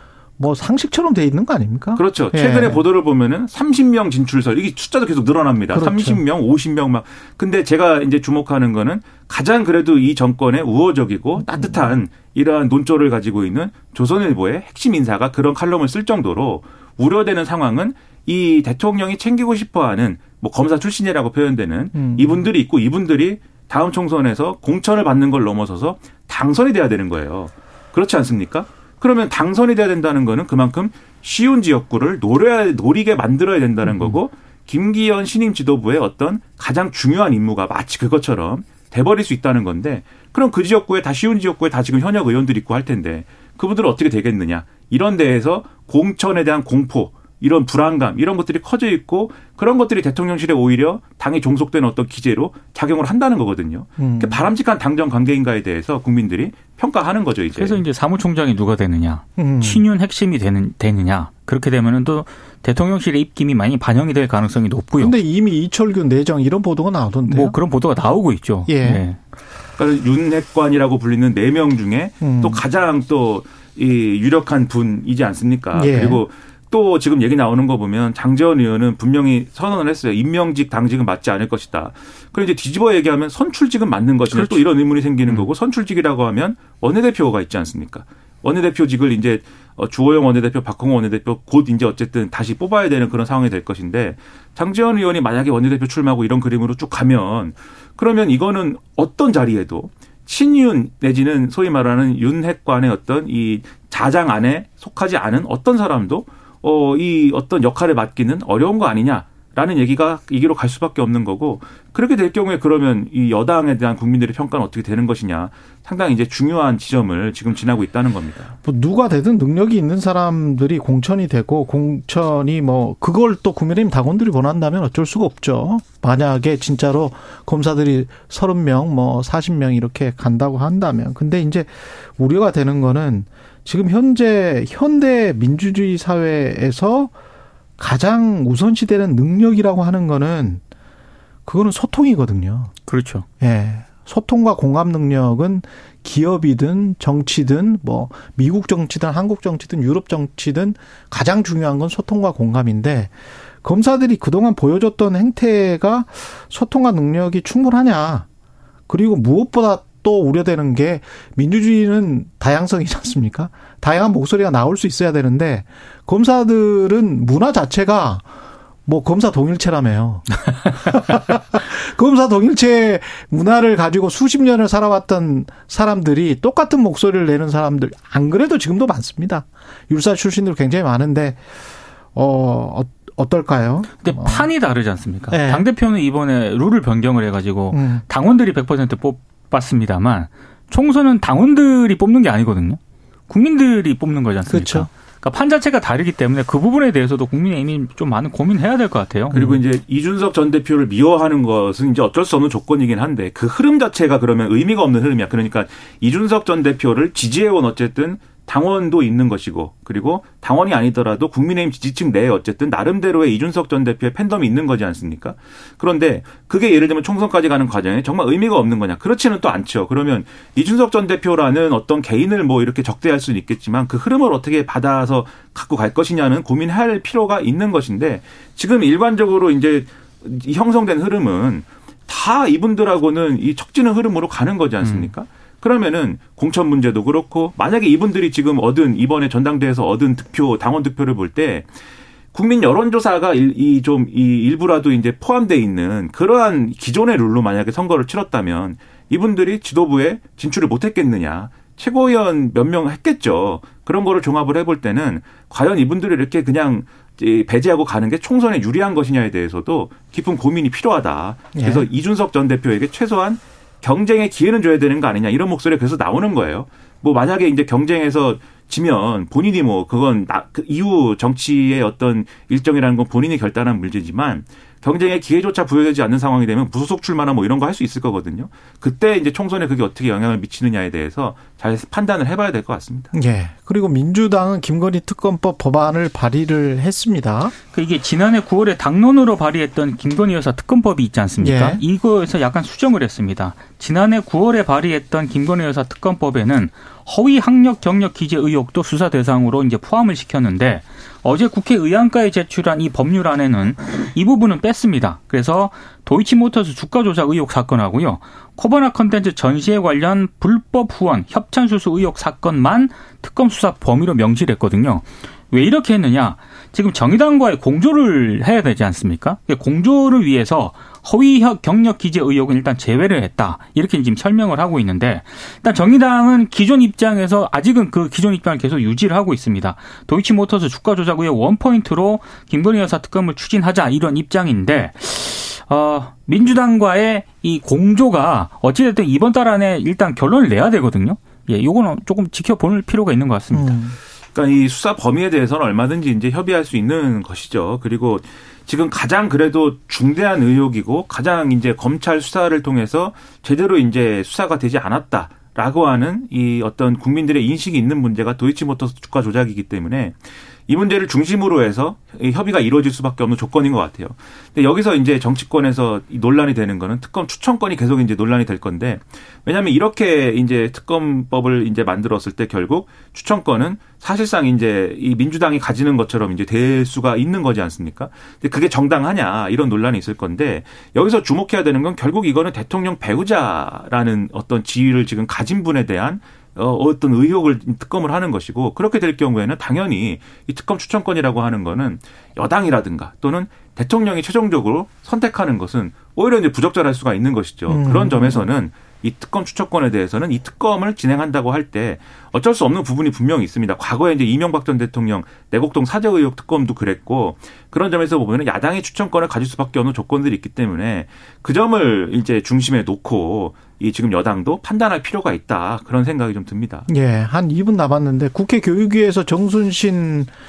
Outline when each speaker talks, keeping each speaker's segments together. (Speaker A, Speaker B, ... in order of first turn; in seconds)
Speaker A: 0.4-2.8, 5.7-6.2, 11.4-11.8, 33.8-34.2, 54.0-54.4, 59.4-59.8, 65.0-67.6, 68.7-69.0, 72.2-72.6, 75.8-76.3, 118.6-137.1, 137.8-140.6, 141.5-142.7, 143.4-158.3, 158.9-168.3, 168.9-181.4, 182.1-184.5, 185.3-185.6, 187.7-188.0, 194.5-194.9, 199.3-199.6, 261.6-261.9, 283.1-287.5, 291.4-291.8, 343.5-344.0, 397.7-398.4, 416.9-420.3
Speaker B: 2.0-57.8, 69.8-118.5, 199.3-241.7, 242.3-283.1, 344.4-360.2, 360.7-416.9
Speaker C: 57.5-65.1, 67.3-69.2, 84.3-84.6, 142.9-143.2, 184.0-199.4, 234.8-235.1, 287.7-343.8